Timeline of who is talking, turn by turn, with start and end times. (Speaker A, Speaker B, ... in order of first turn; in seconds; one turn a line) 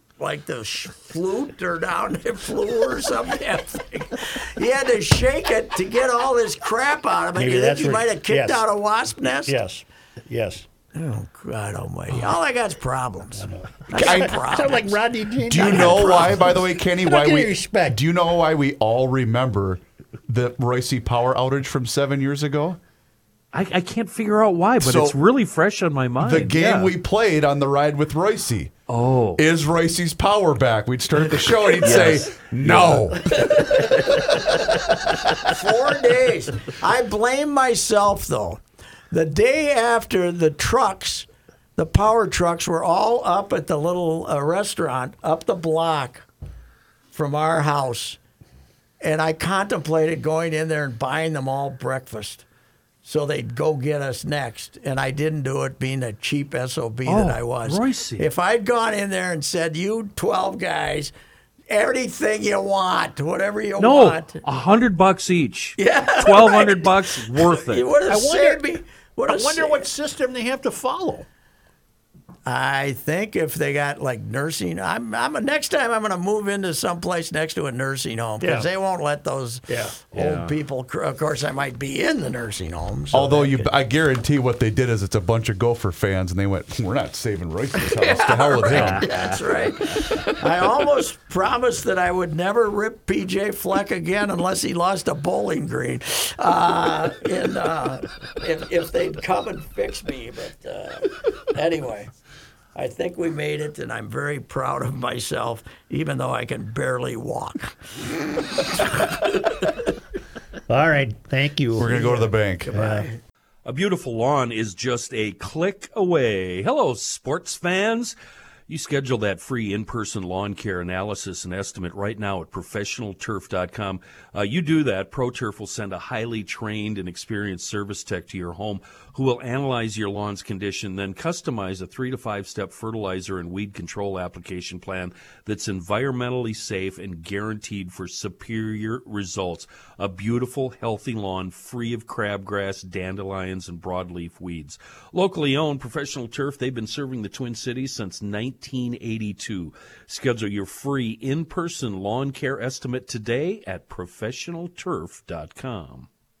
Speaker A: 0.2-9.6
Speaker B: 7.3-8.7
Speaker B: 9.4-10.6
Speaker A: 10.9-14.9
Speaker B: 13.3-18.0
Speaker C: 13.9-14.3
Speaker C: 15.5-22.8
Speaker A: 15.6-16.1
Speaker D: 23.5-26.9
Speaker C: 24.8-25.1
Speaker C: 26.2-28.7
Speaker D: 28.9-29.4
Speaker C: 29.4-33.4
Speaker D: 31.8-35.4
Speaker A: 33.4-34.0
Speaker A: 35.4-46.2
Speaker A: 47.1-48.2
Speaker A: 49.0-52.4
Speaker A: 53.0-61.1
Speaker D: 57.0-58.3
Speaker A: 61.7-64.4
Speaker D: 63.8-67.9
Speaker A: 65.8-69.9
Speaker B: 68.1-68.7
Speaker B: 69.2-71.3
Speaker A: 72.5-83.7
Speaker B: 78.4-78.7
Speaker B: 79.7-80.0
Speaker D: 80.1-80.6
Speaker C: 83.1-89.1
Speaker A: 87.8-102.1
Speaker D: 88.7-89.8
Speaker A: 102.7-107.7
Speaker A: 108.5-109.7
Speaker B: 110.7-113.1
Speaker C: 111.8-112.7
Speaker A: 111.8-113.2
Speaker D: 113.6-118.1
Speaker D: 118.7-156.1